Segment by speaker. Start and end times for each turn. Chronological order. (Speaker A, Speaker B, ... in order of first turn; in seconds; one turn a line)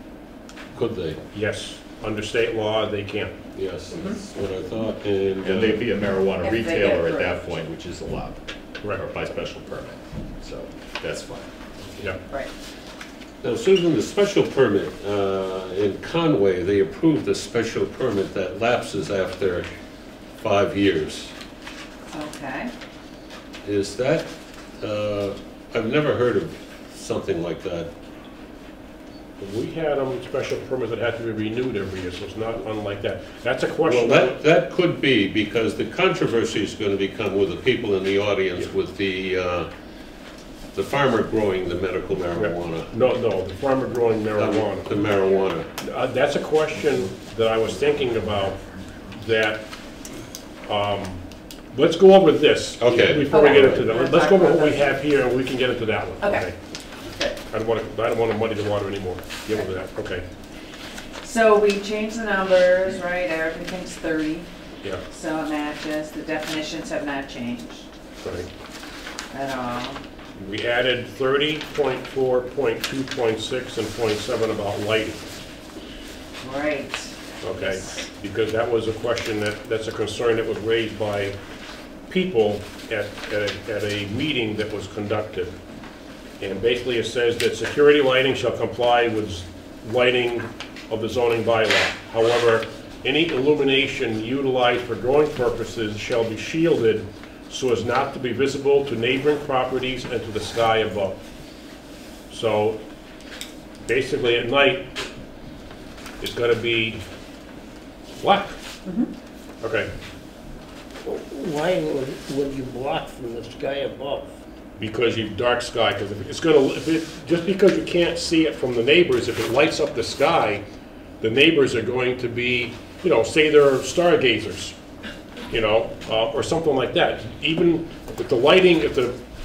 Speaker A: 0.7-1.2
Speaker B: 1.3-3.3
Speaker A: 3.5-5.8
Speaker C: 3.9-4.2
Speaker D: 5.4-11.5
Speaker C: 6.4-7.4
Speaker A: 13.4-19.7
Speaker A: 20.4-21.3
Speaker C: 22.1-22.7
Speaker A: 23.6-24.3
Speaker A: 24.8-27.9
Speaker B: 29.4-34.4
Speaker A: 33.8-39.7
Speaker A: 40.7-42.9
Speaker B: 42.3-45.0
Speaker A: 44.4-45.7
Speaker B: 45.8-48.6
Speaker B: 49.1-49.6
Speaker B: 50.7-51.2
Speaker B: 51.7-56.5
Speaker A: 52.8-53.8
Speaker C: 53.2-54.9
Speaker C: 56.2-56.5
Speaker C: 57.0-57.4
Speaker B: 57.5-60.2
Speaker C: 61.2-64.5
Speaker C: 65.1-67.9
Speaker B: 68.2-68.5
Speaker C: 69.3-70.0
Speaker B: 70.4-75.3
Speaker C: 76.4-77.9
Speaker B: 77.4-81.3
Speaker B: 82.1-85.6
Speaker B: 86.4-101.2
Speaker B: 102.3-102.8
Speaker B: 103.8-104.9
Speaker B: 106.2-107.0
Speaker B: 108.2-108.6
Speaker C: 108.8-109.1
Speaker B: 109.6-109.9
Speaker E: 111.0-114.3
Speaker B: 114.8-120.6
Speaker B: 121.2-124.7
Speaker B: 125.5-129.2